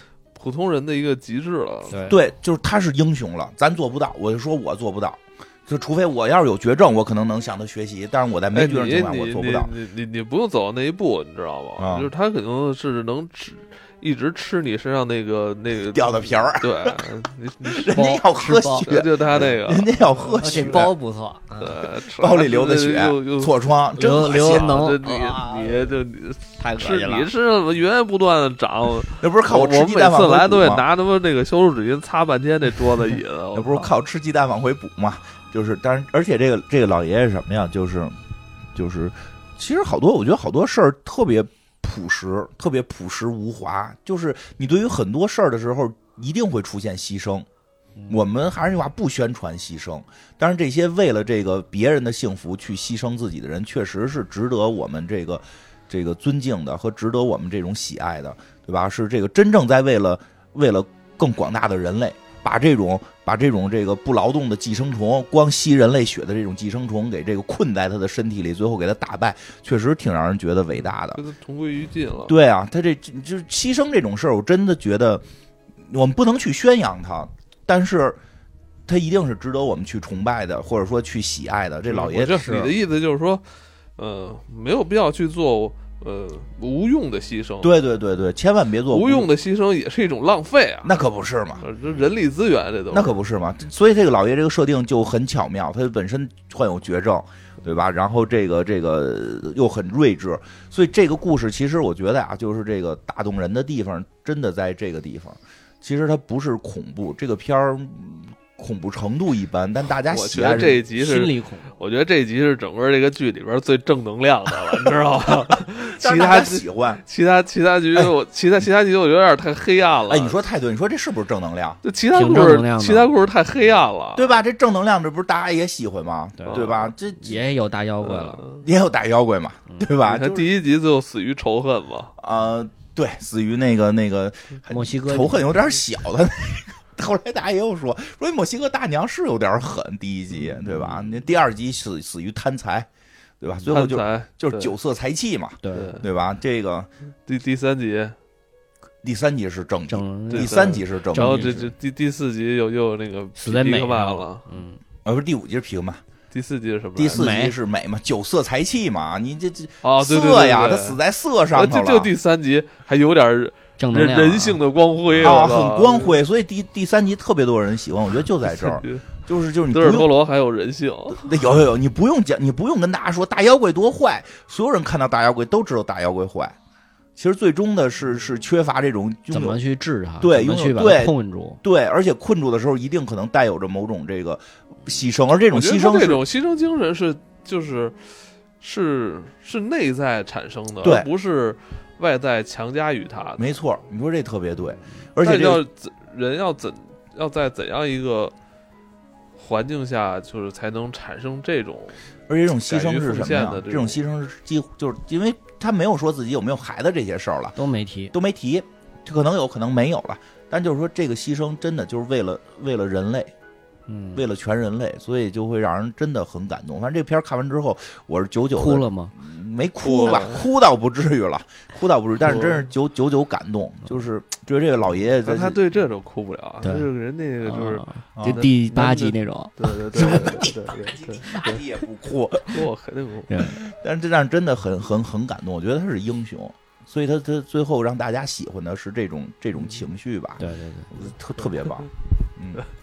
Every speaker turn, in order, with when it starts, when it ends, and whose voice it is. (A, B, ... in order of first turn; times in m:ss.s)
0:00.3-0:02.1 A
0:01.9-0:02.2 B
0:02.1-0:09.7 C
0:08.5-0:18.1 A
0:11.8-0:12.1 C
0:15.9-0:17.0 C
0:17.6-0:20.9 C
0:17.9-0:18.9 B
0:18.8-0:20.9 A
0:20.4-0:21.8 B
0:21.6-0:33.9 A
0:22.2-0:24.7 C
0:24.0-0:25.9 B
0:26.6-0:27.3 B
0:29.2-0:30.8 C
0:33.5-0:38.2 C
0:38.7-0:47.4 C
0:48.1-1:11.2 C
1:10.8-1:12.3 A
1:12.3-1:15.2 C
1:15.8-1:18.2 C
1:18.9-1:22.7 C
1:21.9-1:23.4 A
1:24.0-1:27.7 A
1:27.6-1:29.3 C
1:28.9-1:31.0 A
1:30.8-1:31.6 C
1:31.6-1:33.2 A
1:32.9-1:50.8 C
1:50.1-2:00.4 A
1:50.9-1:51.7 B
1:55.8-1:57.0 C
2:00.1-2:01.8 C
2:01.8-2:04.3 A
2:02.1-2:03.1 B
2:04.2-2:07.4 C
2:06.4-2:06.6 B
2:06.5-2:06.9 A
2:07.2-2:08.4 B
2:08.0-2:08.6 A
2:08.6-2:10.5 C
2:10.0-2:12.1 A
2:12.2-2:22.9 C
2:14.7-2:15.5 B
2:20.7-2:20.9 B
2:23.4-2:26.9 C
2:23.7-2:24.7 A
2:25.6-2:26.0 B
2:25.7-2:26.0 A
2:27.3-2:28.1 A
2:29.0-2:31.7 C
2:29.9-2:31.6 B
2:30.3-2:34.4 A
2:33.4-2:34.8 B
2:35.0-2:36.0 C
2:36.3-2:37.3 A
2:37.0-2:42.1 C
2:37.1-2:37.6 B
2:39.8-2:41.0 A
2:41.5-2:46.2 A
2:43.8-2:44.6 B
2:45.2-2:50.1 C
2:48.4-2:49.1 A
2:49.7-2:51.4 A
2:51.1-2:56.5 C
2:57.2-2:59.6 C
2:59.3-3:01.6 B
3:00.2-3:06.2 C
3:05.5-3:08.0 A
3:08.6-3:13.5 A
3:10.8-3:11.1 C
3:13.4-3:15.6 C
3:15.2-3:18.3 A
3:19.4-3:22.0 A
3:22.3-3:27.6 C
3:22.6-3:24.0 A
3:27.6-3:28.1 B
3:28.1-3:33.3 C
3:33.9-3:34.2 B
3:34.1-3:45.6 C
3:38.5-3:39.1 B
3:39.8-3:40.4 A
3:42.2-3:42.6 A
3:45.2-3:51.6 A
3:47.4-3:50.5 B
3:48.2-3:48.4 C
3:50.0-3:52.6 C
3:52.5-3:53.5 A
3:53.3-3:53.6 B
3:53.5-4:02.6 C
4:00.4-4:00.9 B